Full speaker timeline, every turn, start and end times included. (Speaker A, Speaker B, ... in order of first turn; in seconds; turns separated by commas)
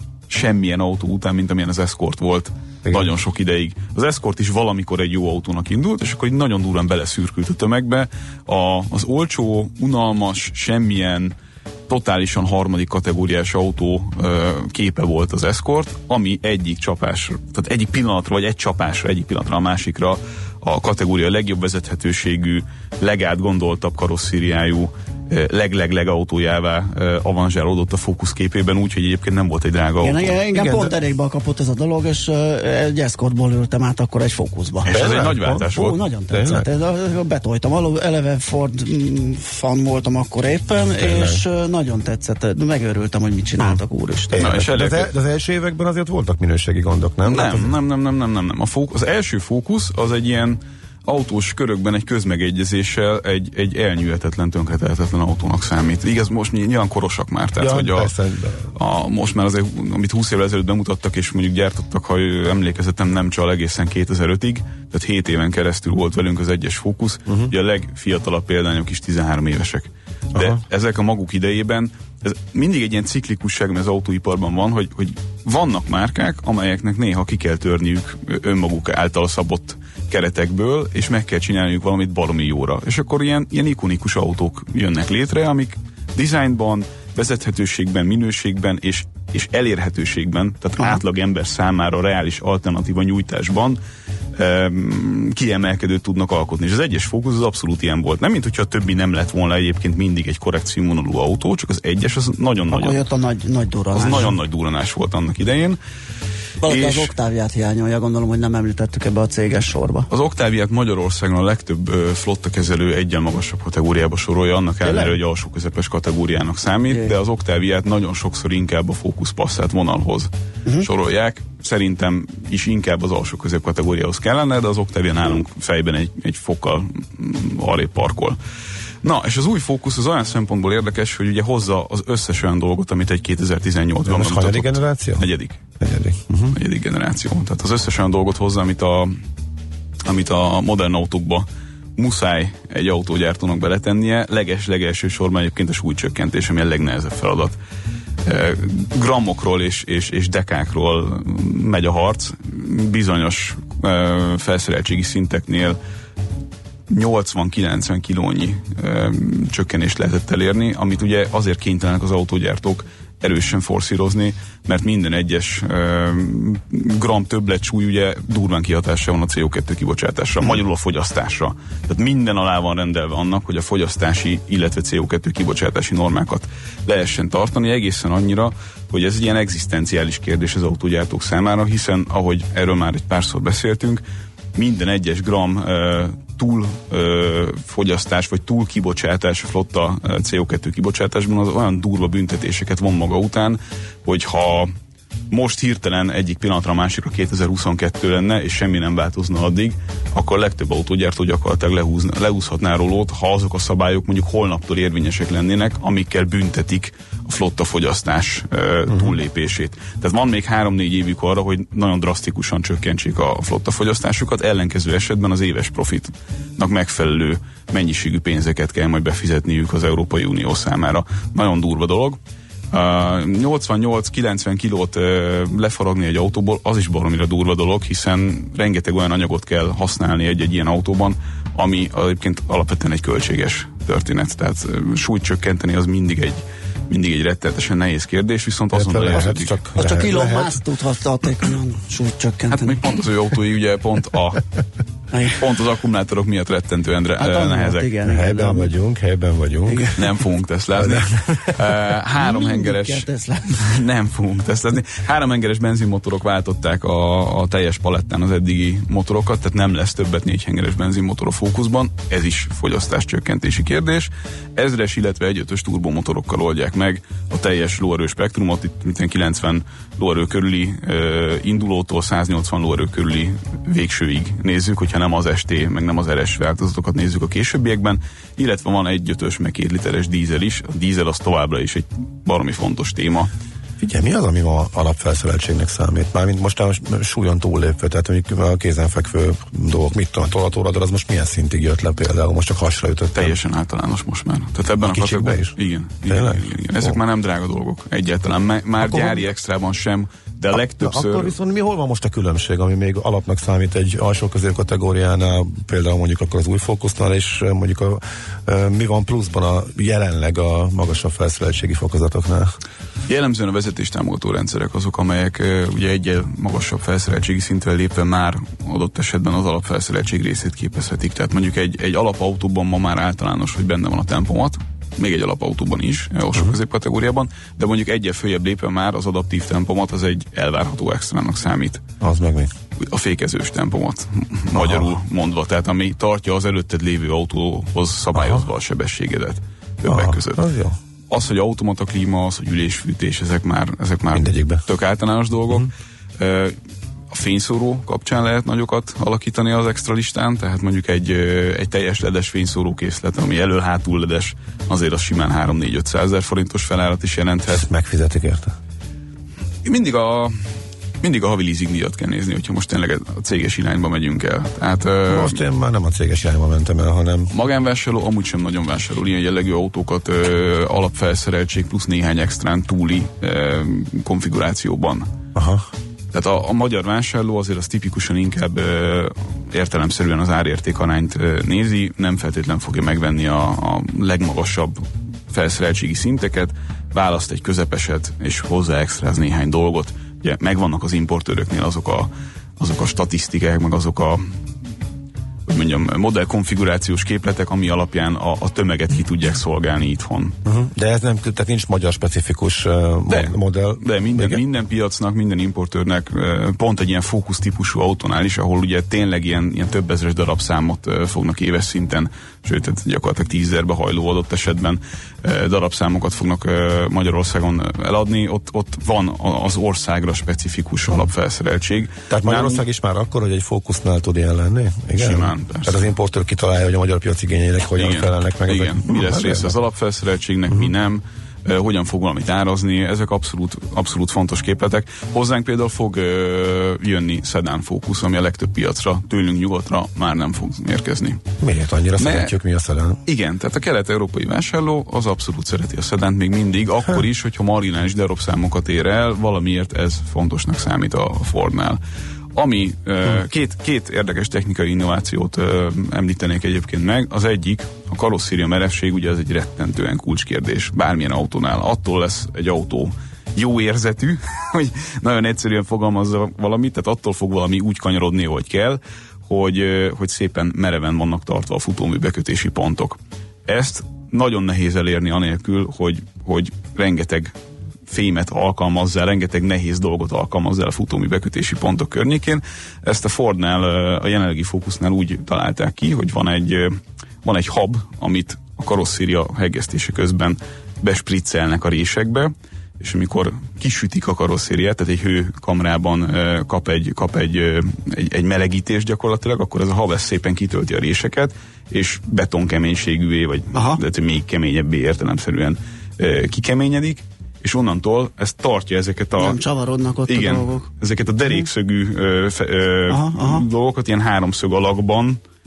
Speaker A: 0.3-11.3, Speaker B: 2.8-3.1, Speaker A: 11.9-30.4, Speaker C: 30.0-34.9, Speaker B: 30.5-30.9, Speaker A: 34.8-36.0, Speaker B: 34.8-35.7, Speaker C: 35.7-44.5, Speaker B: 36.3-36.6, Speaker B: 41.0-41.4, Speaker B: 44.3-47.8, Speaker A: 44.4-45.1, Speaker A: 47.2-58.1, Speaker B: 57.6-58.7, Speaker A: 58.8-93.8, Speaker B: 70.3-70.6, Speaker A: 94.3-103.0, Speaker C: 102.7-104.3, Speaker A: 103.9-105.8, Speaker C: 106.6-110.1, Speaker A: 106.7-107.1, Speaker A: 110.1-120.3, Speaker C: 114.8-115.2, Speaker A: 120.8-128.4, Speaker A: 129.0-135.6, Speaker B: 134.0-135.2, Speaker B: 135.8-136.6, Speaker A: 136.5-139.2, Speaker A: 140.0-147.6, Speaker A: 148.2-155.8, Speaker A: 156.9-184.0, Speaker A: 184.6-194.7, Speaker A: 195.3-222.2, Speaker A: 222.7-239.6, Speaker B: 238.7-240.6, Speaker C: 239.8-242.8, Speaker A: 242.5-244.4, Speaker C: 245.1-245.4, Speaker A: 245.4-247.9, Speaker C: 247.2-248.7, Speaker B: 248.0-250.1, Speaker C: 249.7-250.0, Speaker A: 250.0-283.3, Speaker B: 250.8-251.7, Speaker C: 252.2-253.8, Speaker B: 283.8-293.4, Speaker A: 293.1-301.3, Speaker B: 294.8-295.5, Speaker B: 296.1-297.0, Speaker B: 298.8-299.2, Speaker B: 300.6-312.5, Speaker A: 313.1-331.8, Speaker B: 332.0-332.5, Speaker A: 332.8-340.4, Speaker B: 334.5-335.0, Speaker B: 338.1-338.5, Speaker B: 339.9-340.8, Speaker A: 341.1-346.6, Speaker B: 344.1-344.6, Speaker A: 347.1-357.6, Speaker B: 357.5-358.6, Speaker A: 359.6-360.4, Speaker A: 361.0-365.4, Speaker B: 365.1-367.3, Speaker A: 367.3-375.1, Speaker B: 375.4-375.7, Speaker A: 376.1-394.2, Speaker A: 395.5-400.4, Speaker B: 400.4-404.4, Speaker A: 403.1-422.6, Speaker B: 422.1-429.6, Speaker A: 425.0-425.8, Speaker A: 427.8-441.2, Speaker B: 441.4-443.0, Speaker A: 442.0-442.3, Speaker A: 443.1-451.8, Speaker A: 452.4-477.3, Speaker A: 477.9-509.4, Speaker C: 503.5-503.8, Speaker C: 509.2-510.7, Speaker A: 510.1-515.2, Speaker C: 512.9-513.5